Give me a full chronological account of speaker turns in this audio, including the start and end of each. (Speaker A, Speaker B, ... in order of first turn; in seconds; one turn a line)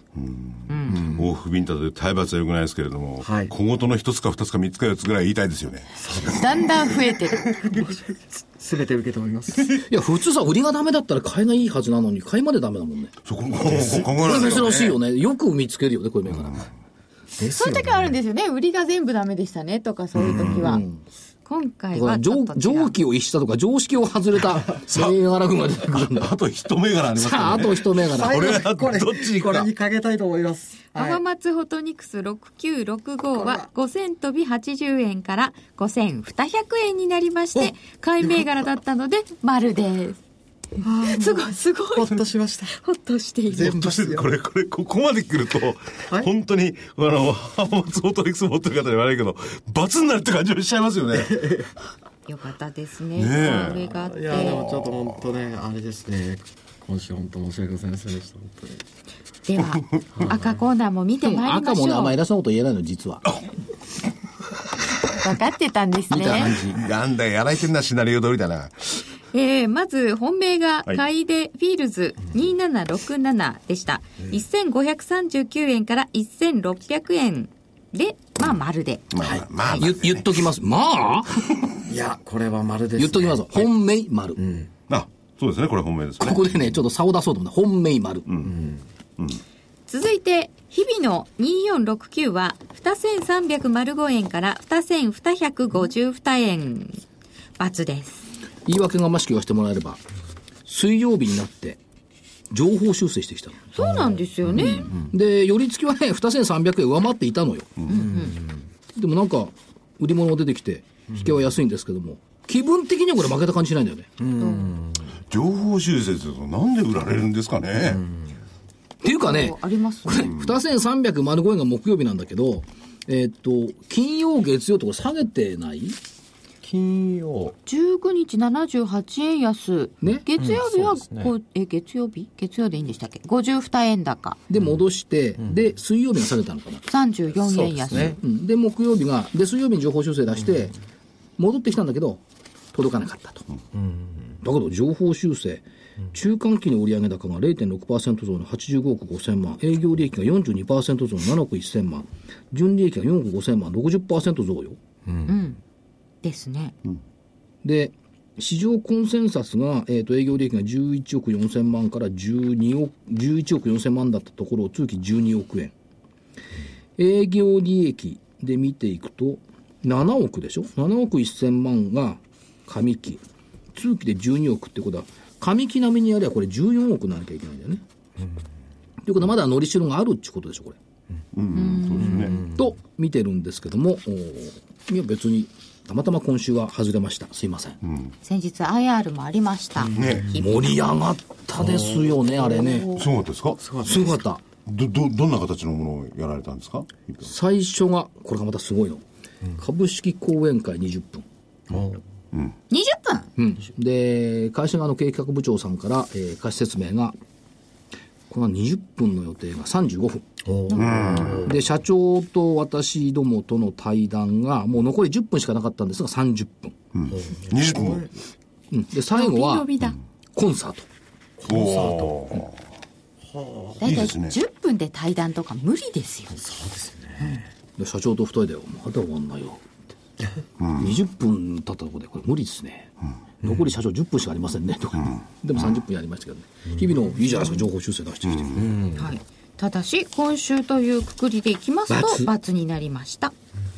Speaker A: 0.1-6.5
Speaker B: 0.7-1.2
Speaker C: 3.2-3.5
Speaker C: 6.0-9.9
Speaker B: 6.3-7.4
Speaker D: 9.9-13.1
Speaker A: 13.2-14.9
Speaker C: 13.6-14.9
Speaker D: 14.0-16.7
Speaker C: 17.4-17.9
Speaker B: 17.5-20.8
Speaker A: 20.2-20.5
Speaker D: 20.6-21.0
Speaker B: 21.4-22.9
Speaker D: 21.9-26.4
Speaker A: 26.0-29.7
Speaker D: 27.1-28.6
Speaker C: 28.1-31.2
Speaker B: 30.9-40.2
Speaker C: 33.3-33.7
Speaker C: 37.6-38.5
Speaker C: 40.8-42.8
Speaker B: 40.9-42.2
Speaker B: 42.8-43.8
Speaker C: 43.5-44.3
Speaker A: 43.6-51.5
Speaker C: 51.1-51.7
Speaker B: 52.2-54.6
Speaker A: 53.1-55.2
Speaker C: 53.9-58.8
Speaker B: 59.5-62.1
Speaker C: 60.1-60.6
Speaker D: 61.2-63.4
Speaker B: 65.1-66.6
Speaker D: 66.1-66.8
Speaker A: 66.6-69.0
Speaker B: 69.3-79.0
Speaker A: 79.1-80.3
Speaker C: 79.2-79.5
Speaker D: 79.8-81.7
Speaker C: 81.9-83.7
Speaker D: 83.0-84.4
Speaker C: 84.4-84.7
Speaker A: 84.9-86.5
Speaker D: 86.2-88.2
Speaker A: 88.3-88.6
Speaker C: 88.4-88.8
Speaker B: 89.9-97.0
Speaker B: 97.6-98.3
Speaker D: 98.7-100.0
Speaker D: 100.7-101.8
Speaker D: 102.5-103.8
Speaker B: 103.7-104.9
Speaker C: 103.8-105.1
Speaker D: 104.5-107.8
Speaker B: 107.9-108.3
Speaker C: 107.9-108.6
Speaker D: 109.0-114.1
Speaker C: 114.2-115.1
Speaker B: 114.3-114.7
Speaker A: 115.3-118.0
Speaker C: 117.8-118.3
Speaker D: 119.0-126.0
Speaker B: 119.1-120.3
Speaker C: 126.6-127.6
Speaker B: 127.7-134.4
Speaker C: 130.4-131.3
Speaker D: 134.5-136.8
Speaker C: 134.5-134.8
Speaker B: 136.9-138.2
Speaker C: 137.4-138.2
Speaker D: 138.2-140.7
Speaker D: 141.4-142.2
Speaker D: 142.7-143.4
Speaker C: 143.7-144.4
Speaker D: 144.4-154.8
Speaker C: 155.1-155.3
Speaker B: 155.3-155.6
Speaker B: 156.2-156.8
Speaker D: 157.6-165.7
Speaker D: 167.0-173.2
Speaker D: 173.7-177.8
Speaker D: 179.0-180.8
Speaker A: 181.3-182.3
Speaker B: 181.5-182.4
Speaker C: 182.0-182.7
Speaker D: 182.4-187.8
Speaker A: 187.9-188.1
Speaker B: 188.2-190.9
Speaker C: 189.8-190.3
Speaker A: 189.9-190.3
Speaker D: 190.3-193.1
Speaker C: 191.6-192.2
Speaker A: 193.0-193.6
Speaker C: 193.6-194.2
Speaker D: 193.8-194.4
Speaker A: 194.6-197.2
Speaker D: 197.2-199.0
Speaker D: 199.6-201.2
Speaker C: 201.7-202.0
Speaker B: 202.7-203.3
Speaker D: 203.4-207.2
Speaker D: 208.3-210.2
Speaker C: 210.4-211.6
Speaker B: 210.7-211.2
Speaker A: 210.7-211.5
Speaker D: 211.4-216.7
Speaker A: 216.9-218.1
Speaker C: 217.1-218.1
Speaker D: 218.7-219.7
Speaker B: 219.1-220.0
Speaker D: 220.3-220.9
Speaker C: 221.4-222.2
Speaker A: 221.5-222.5
Speaker C: 223.3-223.8
Speaker B: 223.8-226.4
Speaker A: 223.8-224.3
Speaker C: 226.4-227.5
Speaker D: 227.8-229.7
Speaker A: 230.6-230.9
Speaker D: 230.8-232.9
Speaker D: 233.4-238.7
Speaker C: 236.7-237.0
Speaker A: 238.3-238.6
Speaker C: 238.6-239.1
Speaker B: 238.9-243.3
Speaker D: 241.9-242.3